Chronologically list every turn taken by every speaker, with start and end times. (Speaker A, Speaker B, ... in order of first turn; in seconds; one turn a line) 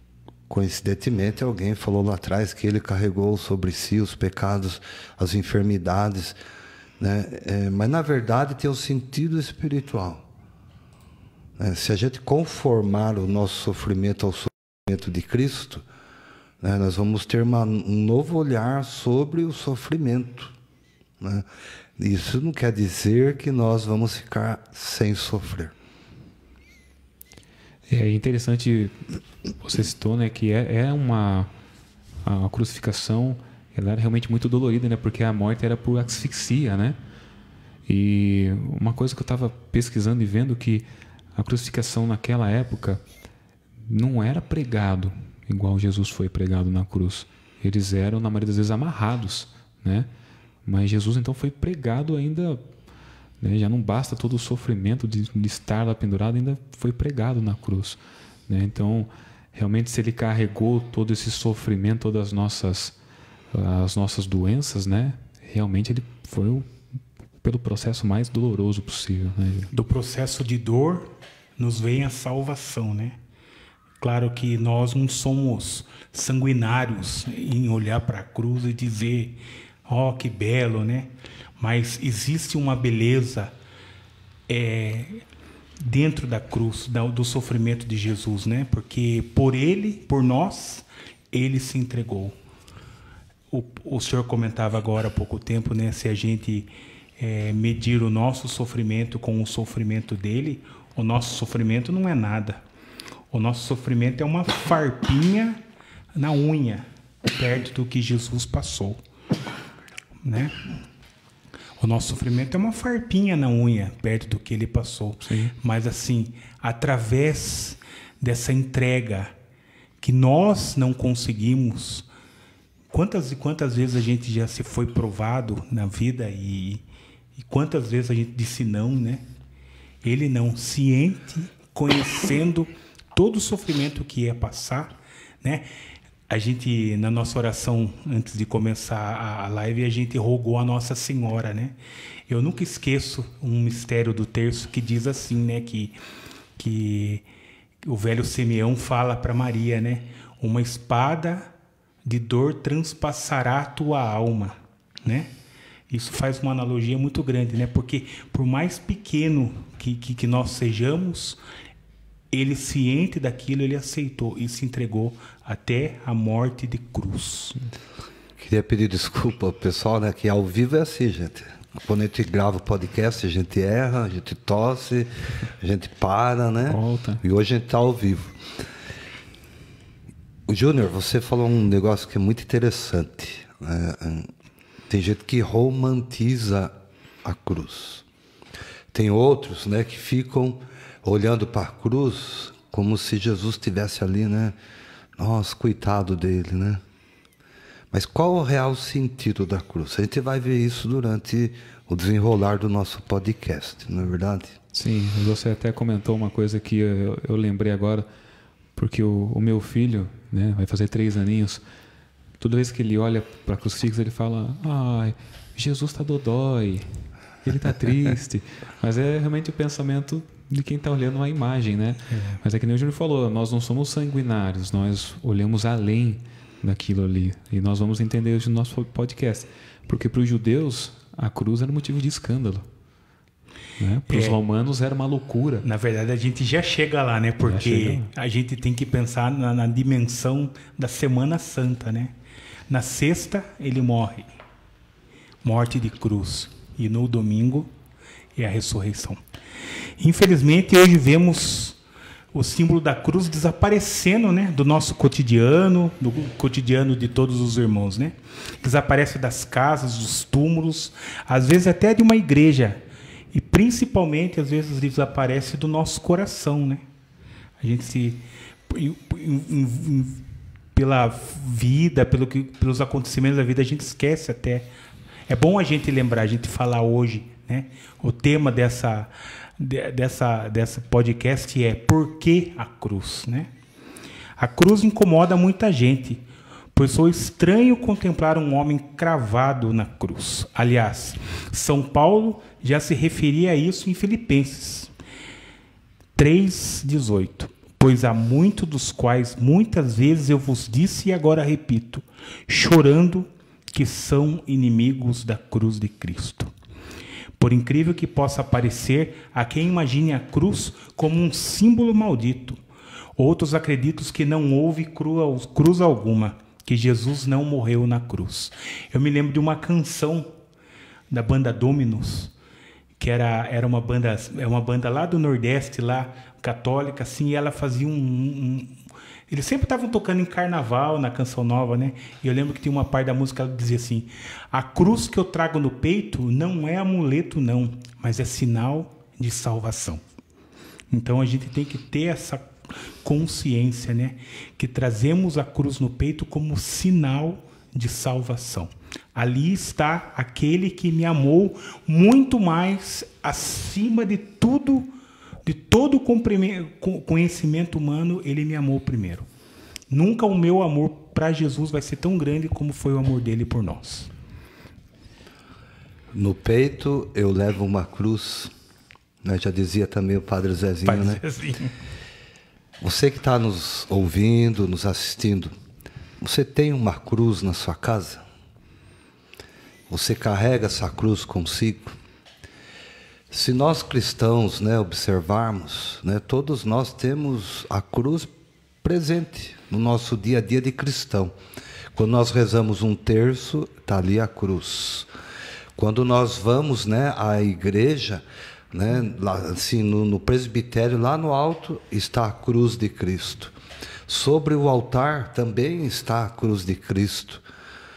Speaker A: 0.5-6.4
Speaker A: 7.0-10.2
Speaker A: 11.6-15.8
Speaker A: 16.6-20.5
Speaker A: 21.2-25.7
Speaker B: 27.9-28.9
Speaker B: 29.6-31.5
Speaker B: 32.2-37.0
Speaker B: 37.9-43.0
Speaker B: 43.9-50.1
Speaker B: 50.6-52.6
Speaker B: 53.4-62.9
Speaker B: 63.5-66.7
Speaker B: 67.4-69.7
Speaker C: 69.7-73.2
Speaker C: 74.0-83.5
Speaker C: 84.5-85.2
Speaker C: 85.8-92.3
Speaker C: 93.5-102.6
Speaker C: 103.3-105.6
Speaker C: 106.1-109.0
Speaker C: 110.2-110.6
Speaker C: 111.8-119.3
Speaker B: 115.2-115.5
Speaker C: 120.0-122.1
Speaker C: 122.9-126.8
Speaker C: 127.3-129.2
Speaker C: 130.0-135.7
Speaker C: 136.3-141.8
Speaker C: 142.3-146.0
Speaker C: 146.6-147.2
Speaker C: 147.8-151.5
Speaker C: 152.0-155.3
Speaker C: 155.9-161.4
Speaker C: 162.3-167.6
Speaker A: 168.4-178.3
Speaker B: 176.7-177.2
Speaker A: 180.5-184.3
Speaker A: 184.9-186.7
Speaker A: 187.2-188.0
Speaker A: 188.9-194.5
Speaker A: 195.2-196.8
Speaker A: 197.9-204.6
Speaker B: 204.7-208.1
Speaker B: 208.8-211.6
Speaker B: 212.4-216.9
Speaker B: 217.4-232.7
Speaker C: 222.1-222.4
Speaker B: 233.8-235.6
Speaker C: 234.1-234.4
Speaker C: 235.6-242.1
Speaker B: 237.4-238.1
Speaker C: 242.7-244.3
Speaker C: 245.4-247.7
Speaker C: 248.3-249.2
Speaker C: 250.0-251.8
Speaker C: 252.3-266.8
Speaker C: 267.6-270.2
Speaker C: 270.7-274.7
Speaker C: 275.3-283.5
Speaker C: 284.4-294.9
Speaker C: 296.1-306.5
Speaker C: 307.4-312.6
Speaker C: 313.1-320.3
Speaker C: 321.1-322.3
Speaker C: 323.0-328.8
Speaker C: 329.3-340.0
Speaker C: 340.9-354.9
Speaker C: 355.4-359.3
Speaker C: 359.9-364.1
Speaker A: 366.1-368.5
Speaker A: 369.2-371.2
Speaker C: 370.8-371.7
Speaker A: 372.8-375.5
Speaker A: 376.2-378.2
Speaker A: 379.9-382.0
Speaker A: 383.3-388.3
Speaker A: 388.8-391.3
Speaker A: 391.9-395.1
Speaker A: 395.8-403.5
Speaker A: 404.1-407.4